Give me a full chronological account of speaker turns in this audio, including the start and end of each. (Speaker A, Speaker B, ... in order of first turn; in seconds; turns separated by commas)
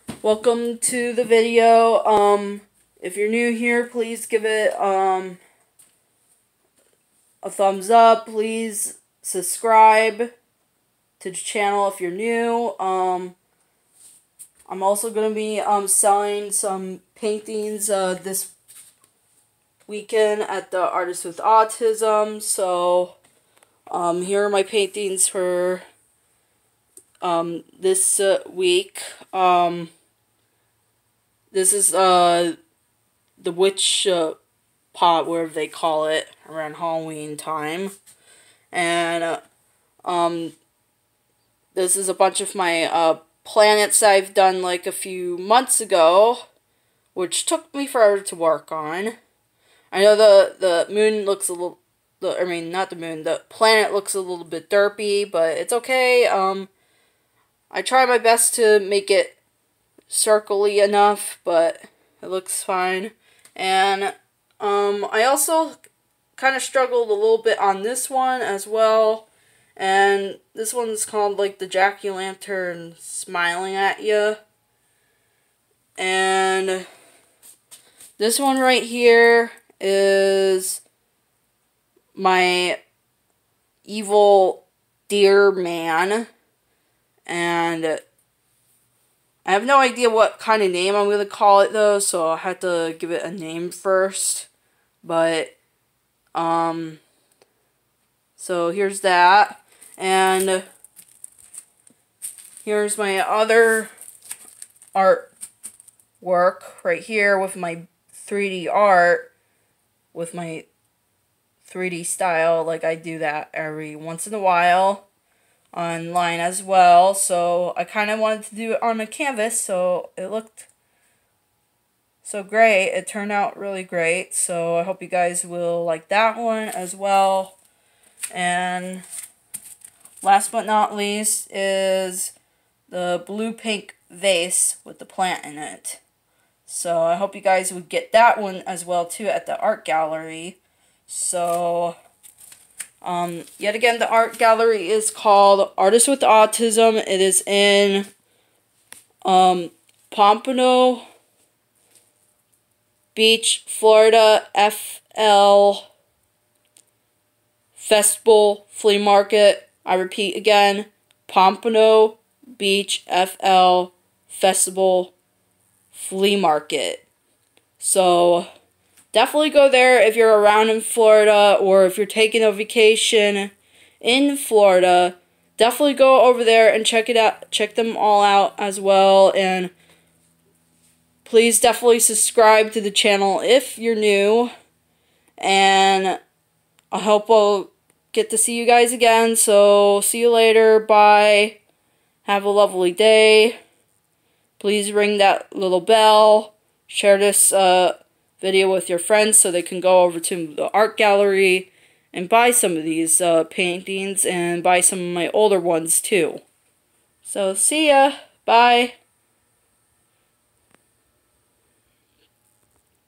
Speaker A: 0.2-5.4, Speaker A: 7.4-10.3, Speaker A: 11.2-13.3, Speaker A: 14.7-18.5, Speaker A: 19.9-23.2, Speaker A: 23.9-25.8, Speaker A: 27.2-29.9, Speaker A: 31.5-32.5, Speaker A: 33.4-34.4, Speaker A: 34.9-37.9, Speaker A: 38.7-39.4, Speaker A: 40.0-40.5, Speaker A: 41.7-46.4, Speaker A: 47.1-49.1, Speaker A: 49.9-56.7, Speaker A: 57.7-59.4, Speaker A: 60.1-65.8, Speaker A: 66.4-74.4, Speaker A: 76.0-76.8, Speaker A: 78.2-80.8, Speaker A: 82.1-82.8, Speaker A: 83.8-86.3, Speaker A: 87.2-88.0, Speaker A: 89.4-94.5, Speaker A: 95.0-95.5, Speaker A: 96.3-97.0, Speaker A: 98.4-100.6, Speaker A: 102.6-103.9, Speaker A: 104.9-105.3, Speaker A: 106.2-109.3, Speaker A: 110.1-110.7, Speaker A: 111.6-115.1, Speaker A: 115.7-120.7, Speaker A: 122.2-127.6, Speaker A: 128.3-129.0, Speaker A: 130.2-132.3, Speaker A: 132.9-136.0, Speaker A: 136.7-141.9, Speaker A: 143.0-148.1, Speaker A: 149.2-151.0, Speaker A: 153.1-155.9, Speaker A: 157.7-165.1, Speaker A: 165.9-167.0, Speaker A: 167.8-168.5, Speaker A: 169.1-179.7, Speaker A: 181.2-184.5, Speaker A: 185.4-186.2, Speaker A: 186.9-191.6, Speaker A: 192.2-193.6, Speaker A: 194.6-206.4, Speaker A: 207.2-208.9